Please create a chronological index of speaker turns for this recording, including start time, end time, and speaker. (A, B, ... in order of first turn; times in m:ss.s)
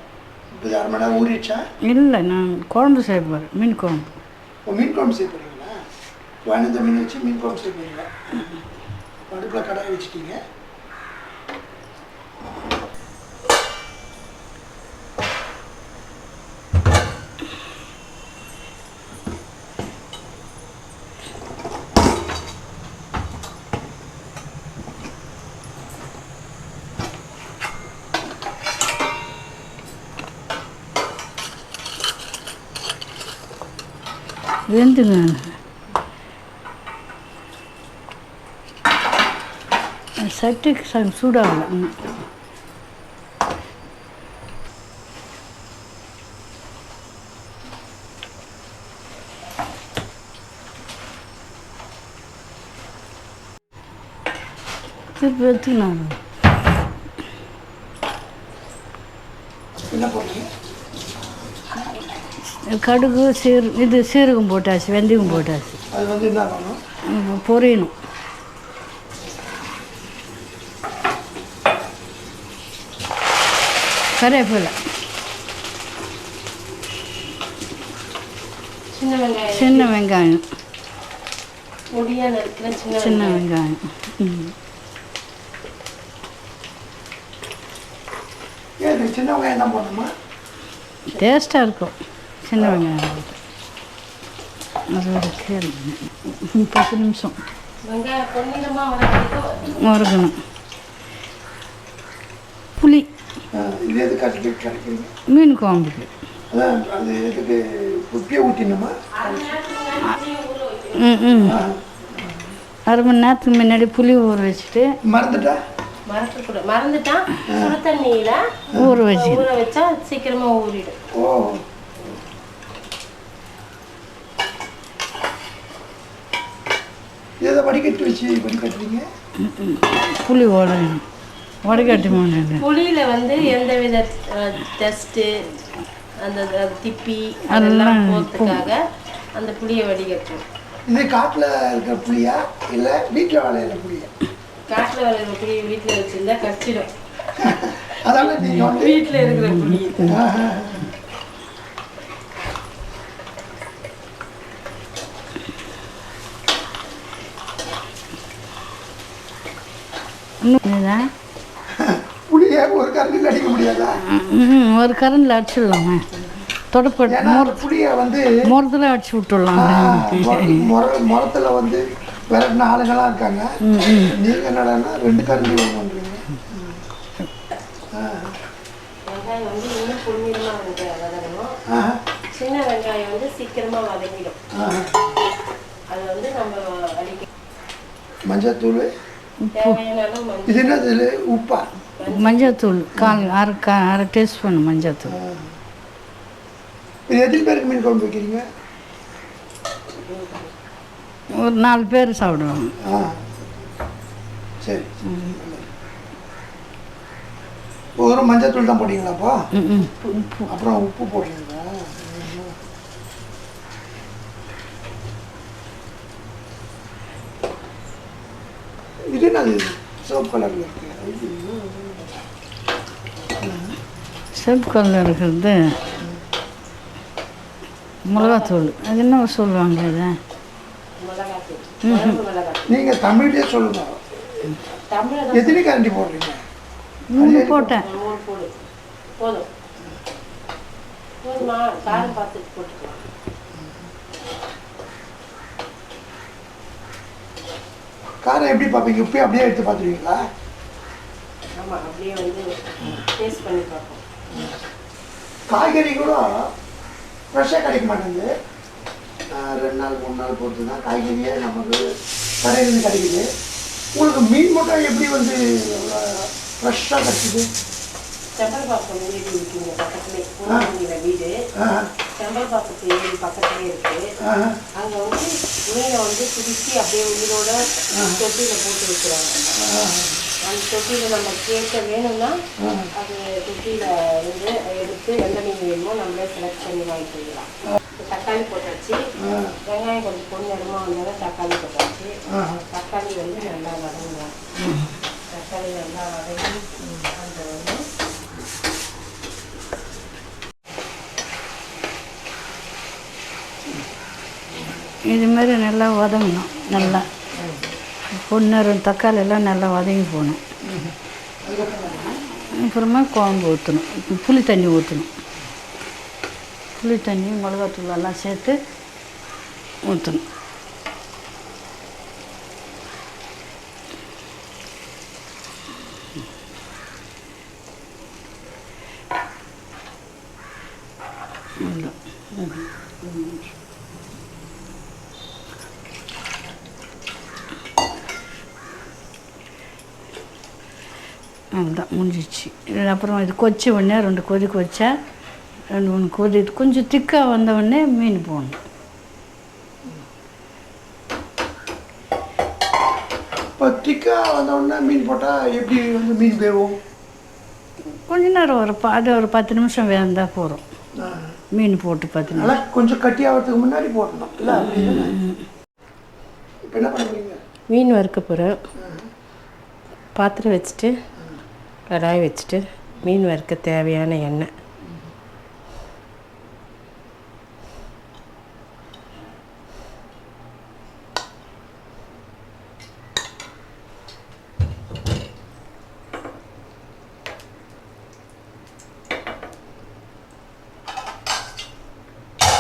0:00.6-0:01.6 A
0:01.8-0:04.2 B
0:04.7-0:05.8 A
0:06.5-0:08.1 A
0:09.3-0:10.4 A
0:34.7-0:35.5 B
0:40.2-0:42.1 B
0:55.2-0:56.2 B
0:59.9-1:00.5 A
1:02.6-1:05.8 B
1:05.3-1:06.8 A
1:07.1-1:07.9 B
1:14.2-1:14.8 B
1:18.9-1:19.9 C
1:19.5-1:20.4 B
1:21.9-1:23.4 C
1:23.0-1:24.5 B
1:28.8-1:30.1 A
1:31.1-1:33.4 B
1:32.6-1:32.8 A
1:34.9-1:37.4 B
1:37.8-1:39.9 C
1:39.8-1:40.3 B
1:42.8-1:43.0 B
1:43.5-1:45.1 A
1:45.3-1:46.1 B
1:46.5-1:49.5 A
1:49.2-1:51.4 C
1:51.0-1:51.6 B
1:51.4-1:51.8 A
1:52.9-1:54.9 B
1:55.1-1:55.6 A
1:56.1-1:58.4 C
1:57.5-1:57.8 A
1:58.7-1:59.0 A
1:58.8-1:59.5 B
1:59.1-2:01.0 C
2:01.1-2:01.6 A
2:07.4-2:09.1 A
2:09.4-2:11.0 B
2:11.6-2:12.6 B
2:11.7-2:12.1 A
2:12.6-2:15.4 C
2:16.2-2:18.8 C
2:17.5-2:18.7 B
2:19.4-2:20.4 C
2:20.9-2:24.1 A
2:24.7-2:26.9 C
2:27.4-2:29.0 A
2:27.6-2:30.1 C
2:29.2-2:30.2 B
2:30.1-2:30.9 A
2:40.4-2:41.0 B
2:41.7-2:44.0 A
2:44.0-2:46.1 B
2:46.7-2:47.6 B
2:47.1-2:48.3 A
2:48.5-2:50.7 B
2:49.6-2:53.5 A
2:53.6-2:54.2 B
2:54.0-2:56.8 A
2:57.9-2:58.4 A
2:59.1-3:01.6 C
3:01.7-3:02.0 A
3:02.3-3:04.4 C
3:04.5-3:05.1 A
3:05.9-3:07.3 C
3:08.3-3:08.9 A
3:09.4-3:09.8 B
3:09.5-3:10.9 C
3:10.5-3:11.7 A
3:12.0-3:12.6 C
3:12.1-3:15.2 B
3:13.0-3:13.2 A
3:15.1-3:15.5 A
3:17.1-3:18.5 A
3:20.0-3:20.5 C
3:21.3-3:22.7 B
3:22.8-3:23.6 A
3:24.6-3:25.6 A
3:25.1-3:25.4 B
3:28.0-3:29.4 A
3:29.6-3:30.5 B
3:30.5-3:32.6 A
3:39.0-3:42.2 A
3:43.4-3:43.8 A
3:44.4-3:45.8 B
3:48.1-3:50.2 B
3:48.2-3:48.7 C
3:51.0-3:52.8 C
3:51.8-3:52.2 B
3:52.7-3:54.5 A
3:54.9-3:55.6 C
3:55.3-3:56.4 A
3:57.1-3:57.8 B
3:57.2-3:57.8 A
3:57.8-3:58.5 C
3:59.2-3:59.5 C
4:01.2-4:03.0 C
4:08.2-4:10.2 A
4:11.6-4:14.0 C
4:15.5-4:16.3 A
4:17.3-4:18.3 A
4:19.3-4:21.8 A
4:22.4-4:23.3 A
4:24.0-4:27.5 A
4:28.4-4:31.3 C
4:31.6-4:31.9 A
4:32.2-4:34.1 C
4:34.2-4:34.6 A
4:34.8-4:39.4 C
4:39.6-4:40.3 A
4:40.4-4:42.4 C
4:42.6-4:42.9 A
4:43.0-4:49.0 C
4:49.2-4:49.6 A
4:49.6-4:52.2 C
4:52.3-4:52.6 A
4:52.7-4:54.3 C
4:55.2-4:57.8 C
5:05.1-5:07.1 B
5:06.8-5:07.7 A
5:08.1-5:10.4 B
5:10.6-5:12.2 A
5:12.5-5:15.1 B
5:16.8-5:18.6 B
5:19.8-5:20.2 B
5:31.6-5:33.4 B
5:41.6-5:44.9 B
5:45.7-5:48.6 B
5:53.6-5:56.8 A
5:57.9-6:00.6 B
6:01.0-6:01.3 A
6:01.5-6:02.6 B
6:02.3-6:05.2 A
6:04.7-6:05.4 B
6:06.7-6:07.4 A
6:07.7-6:08.6 C
6:08.8-6:09.0 A
6:10.2-6:10.9 C
6:11.9-6:14.5 C